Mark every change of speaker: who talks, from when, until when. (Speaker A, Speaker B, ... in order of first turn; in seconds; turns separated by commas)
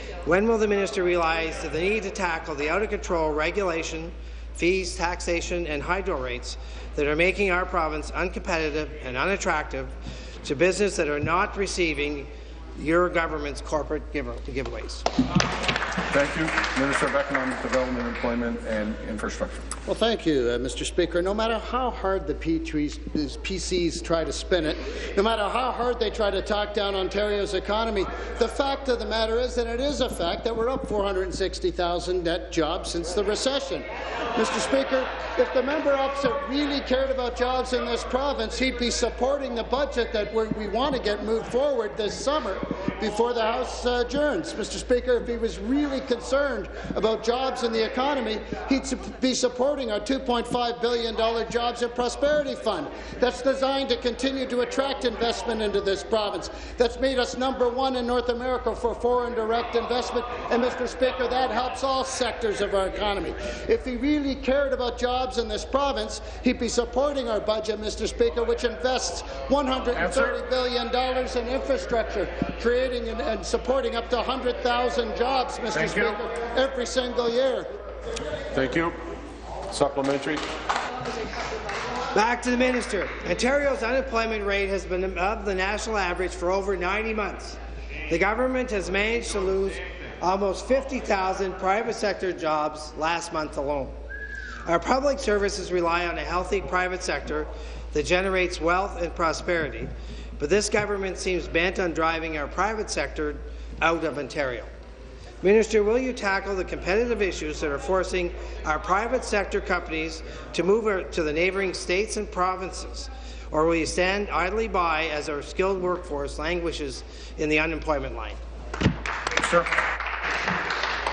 Speaker A: 0.3-9.9, Speaker A: 10.4-15.0, Speaker B: 16.1-19.6, Speaker C: 19.9-77.7, Speaker B: 69.9-70.4, Speaker B: 75.7-76.2, Speaker B: 78.5-79.0, Speaker B: 79.7-80.5, Speaker A: 82.2-87.6, Speaker A: 88.1-93.9, Speaker A: 94.7-104.7, Speaker A: 105.4-118.4, Speaker B: 119.4-119.7